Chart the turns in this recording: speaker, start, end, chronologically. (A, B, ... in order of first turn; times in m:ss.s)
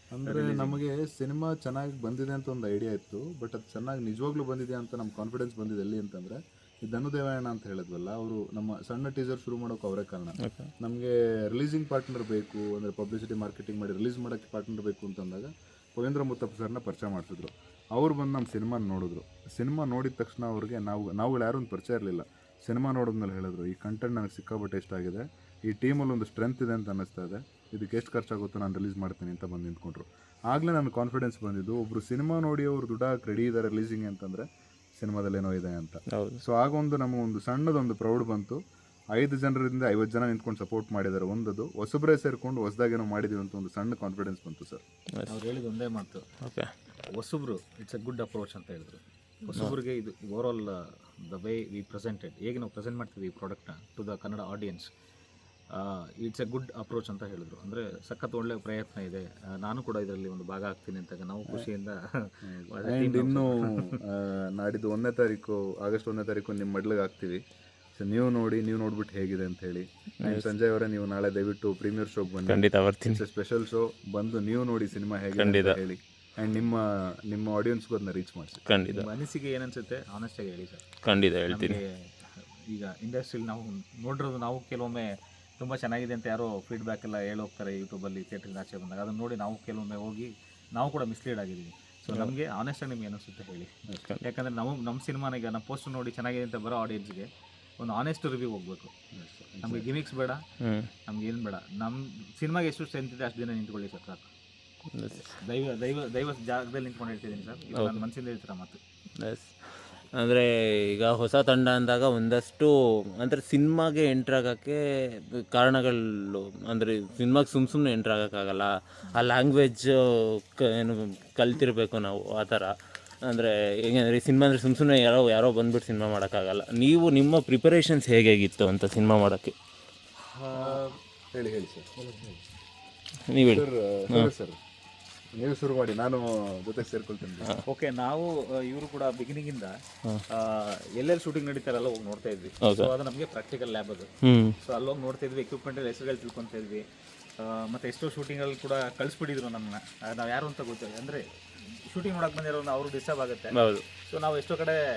0:00.1-0:34.4 A
0:00.3-0:00.8 B
0:10.4-0:10.7 C
0:35.0-0:38.6 A
0:36.1-0:36.4 C
0:39.1-0:44.8 A
0:45.3-0:46.2 B
0:46.4-0:46.7 C
0:47.1-0:54.9 B
0:55.7-1:04.0 B
1:02.4-1:07.4 A
1:08.0-1:18.6 A
1:10.2-1:10.5 C
1:12.5-1:13.2 C
1:15.4-1:15.8 C
1:18.7-1:19.0 C
1:18.9-1:20.8 B
1:21.0-1:21.8 C
1:21.5-1:22.1 B
1:22.7-1:33.7 B
1:33.9-1:34.2 A
1:34.2-1:37.3 B
1:37.8-1:38.9 B
1:39.1-1:39.8 A
1:39.6-1:40.4 B
1:40.6-1:40.9 C
1:41.1-1:44.3 B
1:44.9-1:45.3 C
1:45.3-1:48.8 B
1:47.7-1:48.0 C
1:49.2-2:02.7 C
2:03.2-2:09.5 C
2:10.3-2:10.8 B
2:10.5-2:11.9 A
2:13.3-2:14.3 C
2:13.5-2:14.5 A
2:15.4-2:17.5 A
2:17.7-2:19.7 B
2:20.3-2:24.1 B
2:22.6-2:22.9 C
2:24.2-2:24.6 C
2:24.6-2:26.8 B
2:27.4-2:31.2 B
2:31.8-2:34.8 B
2:33.5-2:33.8 C